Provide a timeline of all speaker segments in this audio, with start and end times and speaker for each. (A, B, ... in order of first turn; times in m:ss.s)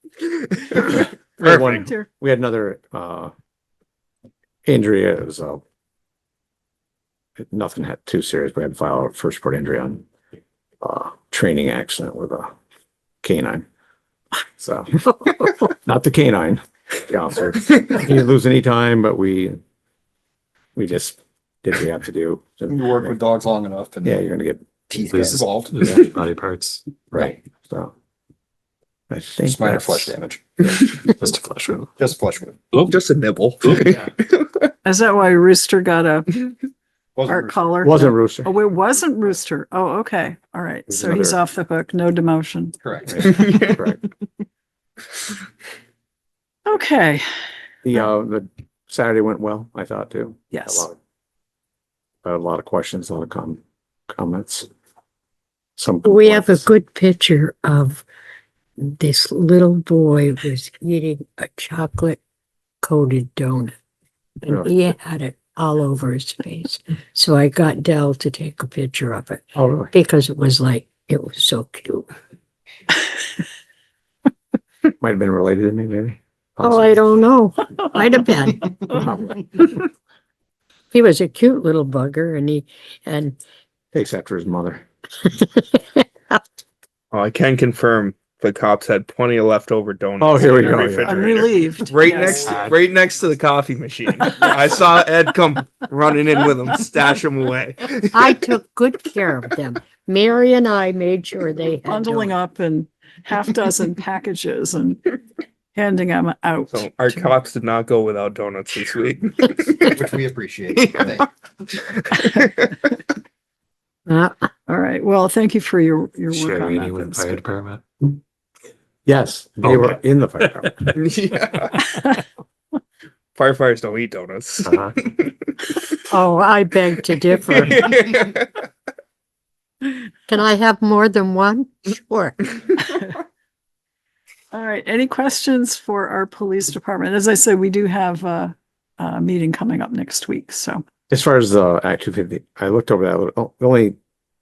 0:00.2-0:01.8 A
0:01.4-0:03.3 B
0:01.5-0:02.1 C
0:04.6-0:05.6 B
0:07.4-0:10.0 B
0:10.8-0:12.5 B
0:13.2-0:13.6 B
0:14.6-0:15.0 B
0:15.8-0:19.6 B
0:20.7-0:23.2 B
0:22.7-0:24.2 D
0:24.0-0:24.7 B
0:24.9-0:25.9 D
0:25.0-0:26.9 E
0:27.1-0:27.9 B
0:29.1-0:30.1 B
0:29.4-0:32.7 D
0:31.3-0:31.8 E
0:32.8-0:34.4 A
0:34.8-0:36.4 C
0:37.2-0:37.6 D
0:37.3-0:42.8 C
0:37.8-0:38.5 B
0:40.9-0:41.4 B
0:42.8-0:43.4 D
0:43.1-0:44.0 B
0:43.3-0:43.8 A
0:46.6-0:47.2 C
0:47.8-0:51.0 B
0:50.5-0:50.9 C
0:52.2-0:54.7 B
0:55.8-0:56.7 B
0:56.0-0:58.0 F
0:58.8-1:02.2 F
1:02.8-1:03.7 F
1:04.4-1:12.1 F
1:09.5-1:09.9 B
1:15.0-1:17.0 B
1:16.6-1:18.6 F
1:18.9-1:19.4 B
1:20.9-1:23.4 F
1:23.9-1:24.8 B
1:27.1-1:38.3 A
1:30.2-1:31.5 B
1:30.7-1:32.6 C
1:32.1-1:32.9 D
1:38.1-1:42.3 F
1:41.9-1:45.1 C
1:45.7-1:47.3 C
1:46.7-1:50.0 A
1:49.8-1:51.3 D
1:50.7-1:51.2 A
1:51.8-1:52.7 A
1:54.1-1:54.5 F
1:54.7-1:57.4 C
1:56.3-1:57.8 E
1:59.0-2:00.8 B
2:00.9-2:01.9 A
2:03.4-2:05.8 A
2:06.1-2:07.8 F
2:07.6-2:08.5 A
2:09.9-2:12.4 F
2:14.5-2:20.8 C
2:21.1-2:24.0 B